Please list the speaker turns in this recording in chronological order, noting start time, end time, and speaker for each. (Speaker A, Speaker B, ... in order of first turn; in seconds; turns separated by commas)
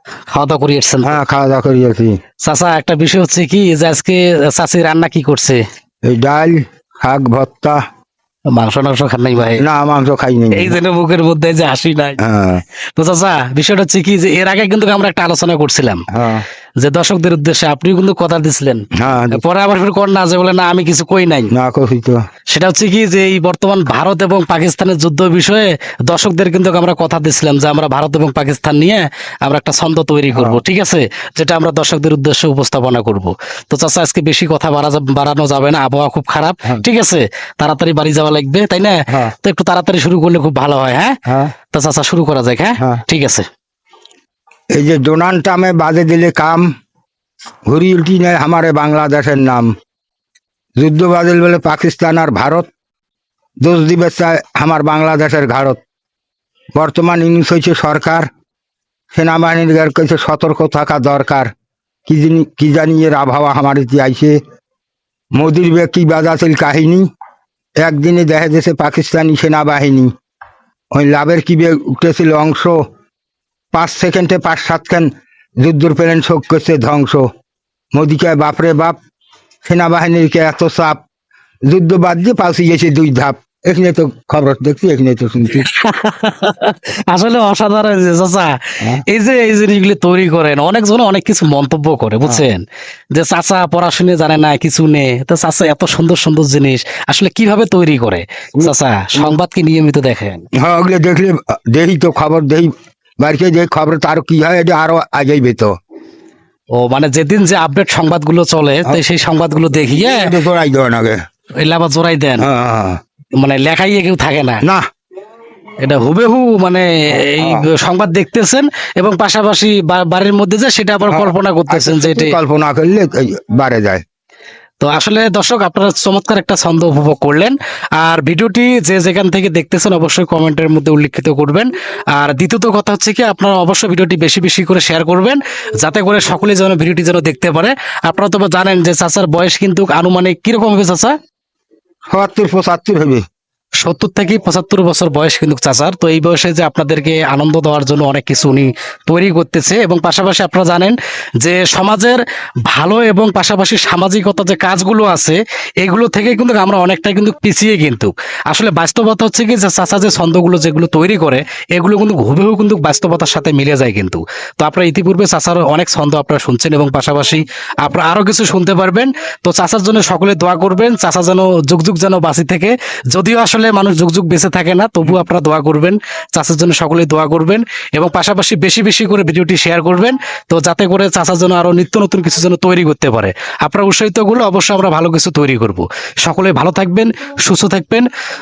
Speaker A: 0.3-1.2, Speaker B: 1.0-2.2, Speaker A: 2.4-5.6, Speaker B: 6.0-7.8, Speaker A: 8.5-9.6, Speaker B: 9.6-10.8, Speaker A: 10.5-12.2, Speaker B: 12.2-12.6, Speaker A: 13.0-16.1, Speaker B: 16.1-16.4, Speaker A: 16.8-21.5, Speaker B: 19.0-19.4, Speaker B: 21.5-22.2, Speaker A: 22.5-41.2, Speaker B: 30.3-30.6, Speaker B: 41.3-41.5, Speaker A: 41.7-43.5, Speaker B: 44.7-46.7, Speaker B: 47.7-49.7, Speaker B: 50.8-52.7, Speaker B: 53.6-55.8, Speaker B: 56.8-58.3, Speaker B: 59.1-61.5, Speaker B: 62.1-64.4, Speaker B: 65.4-67.1, Speaker B: 67.8-70.1, Speaker B: 70.9-72.8, Speaker B: 73.7-77.3, Speaker B: 77.9-79.0, Speaker B: 79.7-81.0, Speaker B: 81.7-85.7, Speaker A: 85.5-100.5, Speaker B: 98.6-99.3, Speaker B: 100.6-105.7, Speaker A: 106.8-110.3, Speaker B: 109.8-111.2, Speaker A: 111.6-112.5, Speaker B: 112.4-113.0, Speaker A: 113.4-114.6, Speaker A: 115.8-122.4, Speaker B: 117.2-117.7, Speaker B: 121.1-124.0, Speaker A: 124.8-141.2, Speaker B: 142.1-143.2, Speaker A: 143.8-188.1